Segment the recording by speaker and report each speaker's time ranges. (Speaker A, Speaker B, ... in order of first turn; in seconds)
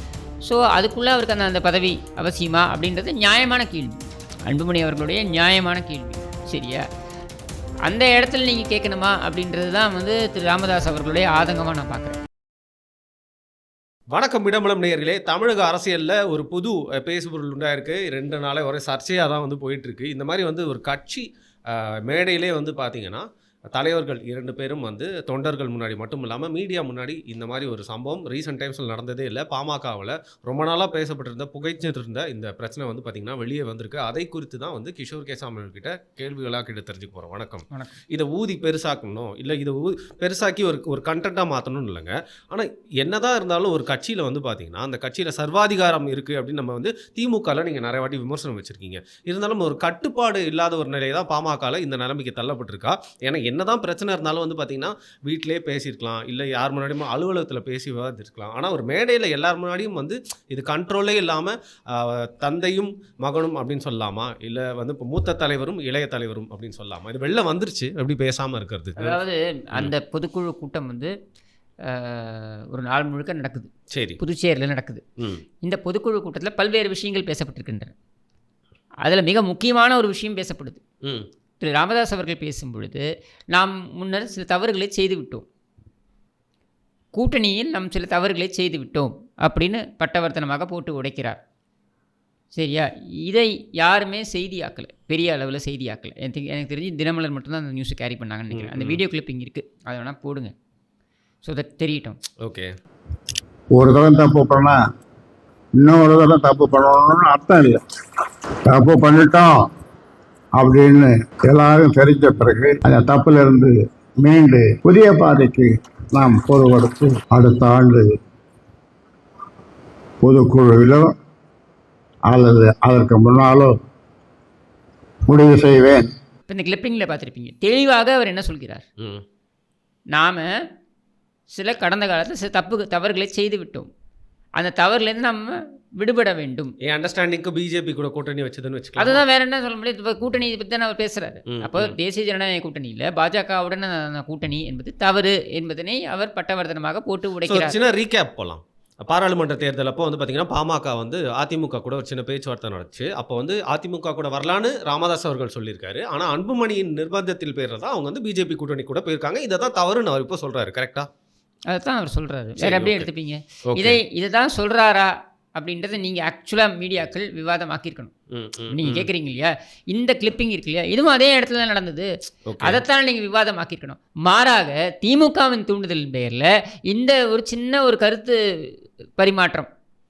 Speaker A: 0.4-3.9, 4.5-6.8, 7.9-12.2, 37.7-38.0, 69.0-71.1, 71.8-75.0, 75.6-77.9, 79.0-80.8, 81.6-85.5, 87.1-91.4, 92.5-100.5, 101.4-102.2, 126.5-128.8, 130.1-130.4, 131.5-133.9, 134.6-136.7, 139.0-147.7, 161.7-168.1, 168.7-172.1, 172.6-179.7
Speaker B: 14.1-69.2, 73.9-74.2, 75.2-75.4, 98.5-99.0, 102.4-102.7, 136.8-139.2, 141.5-141.9, 147.4-161.1, 162.6-163.1, 163.7-164.0, 168.3-169.1, 172.5-172.8
Speaker C: 103.7-104.8, 105.8-107.8, 108.7-109.6, 110.6-118.1, 120.2-121.1, 122.3-123.7, 125.3-126.0